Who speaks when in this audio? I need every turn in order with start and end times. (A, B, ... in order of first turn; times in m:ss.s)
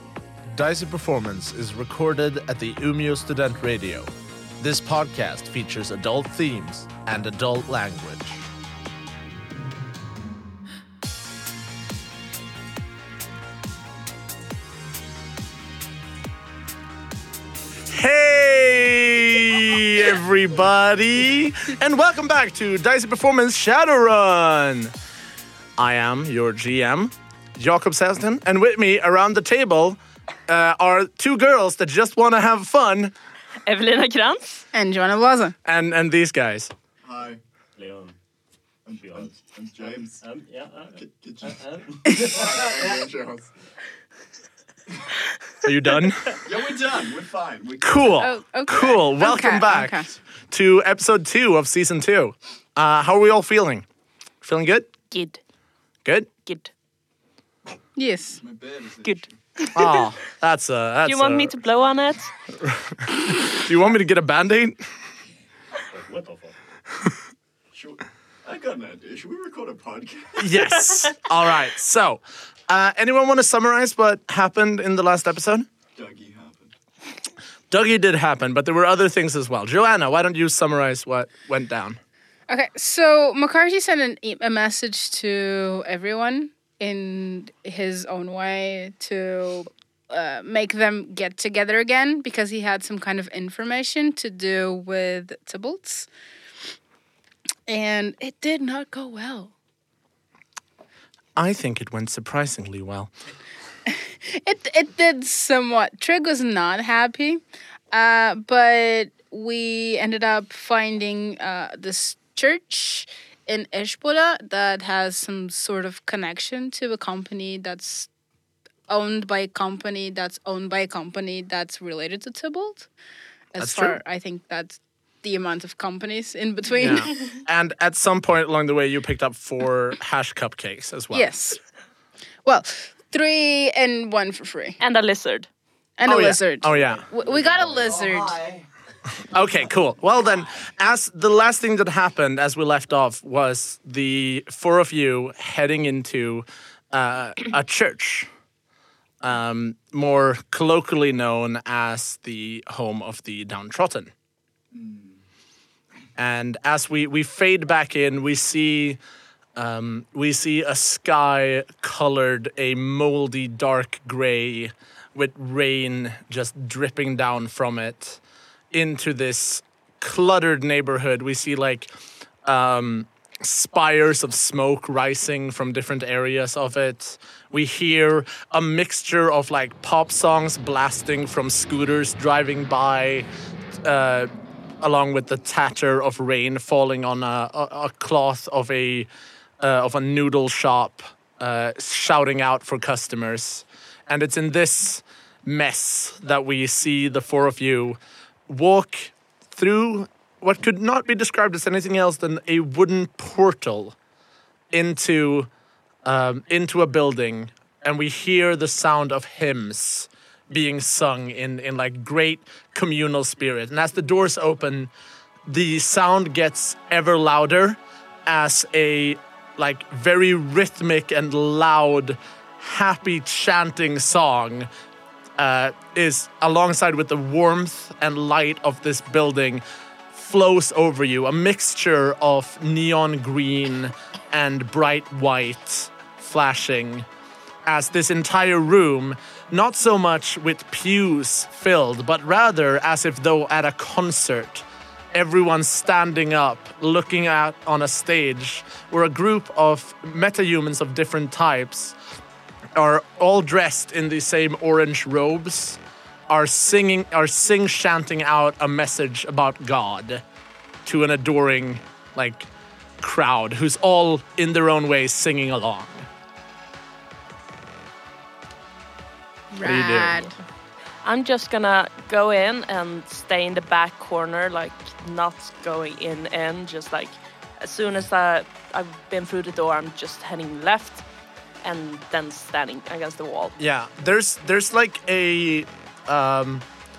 0:00.5-0:08.5 A
0:17.9-0:24.9 A
0:25.8-0:33.1 A
0:33.6-0:34.7 B
0:34.7-0:35.6 C
0:35.6-0:36.7 A
0:37.0-0:37.4 D
0:37.8-0:38.2 E
0:38.9-0:40.2 D
0:38.9-0:39.4 E
0:40.2-0:43.0 E
0:40.9-0:43.5 D
0:45.6-0:46.4 A
0:46.4-0:48.9 D
0:47.8-0:53.8 A
0:48.2-0:50.2 C
0:54.4-0:54.9 A
0:55.1-0:55.4 B
0:56.5-0:56.7 B
0:58.0-0:58.4 C
0:58.3-0:59.3 D
0:59.0-1:00.0 B
0:59.7-1:01.6 A
1:01.0-1:02.3 B
1:02.6-1:04.9 A
1:05.9-1:06.6 E
1:07.7-1:10.7 D
1:10.4-1:15.7 A
1:16.0-1:16.7 D
1:17.7-1:22.0 A
1:22.5-1:36.1 C
1:37.7-1:39.5 C
1:41.4-1:43.1 A
1:44.0-1:58.1 C
1:58.9-2:02.9 C
2:03.5-2:07.3 C
2:03.6-2:04.0 A
2:06.8-2:11.3 A
2:11.1-2:11.6 C
2:12.4-2:14.8 C
2:14.8-2:15.5 B
2:16.0-2:18.4 C
2:16.1-2:17.1 A
2:16.7-2:17.9 E
2:17.3-2:18.7 D
2:19.2-2:28.3 A
2:29.2-2:34.1 A
2:34.7-2:35.2 D
2:36.2-2:39.0 A
2:39.6-2:51.9 A
2:52.4-3:03.3 A
3:03.8-3:24.0 A
3:24.7-3:25.5 A
3:26.0-3:34.9 A
3:35.5-3:44.7 A
3:45.4-3:57.1 A
3:57.6-4:12.0 A
4:12.8-4:20.2 A
4:20.8-4:22.5 A
4:23.0-4:26.1 A
4:29.5-4:30.4 C
4:29.6-4:30.3 A
4:31.0-4:41.0 B
4:41.6-4:43.6 B
4:43.6-4:46.6 A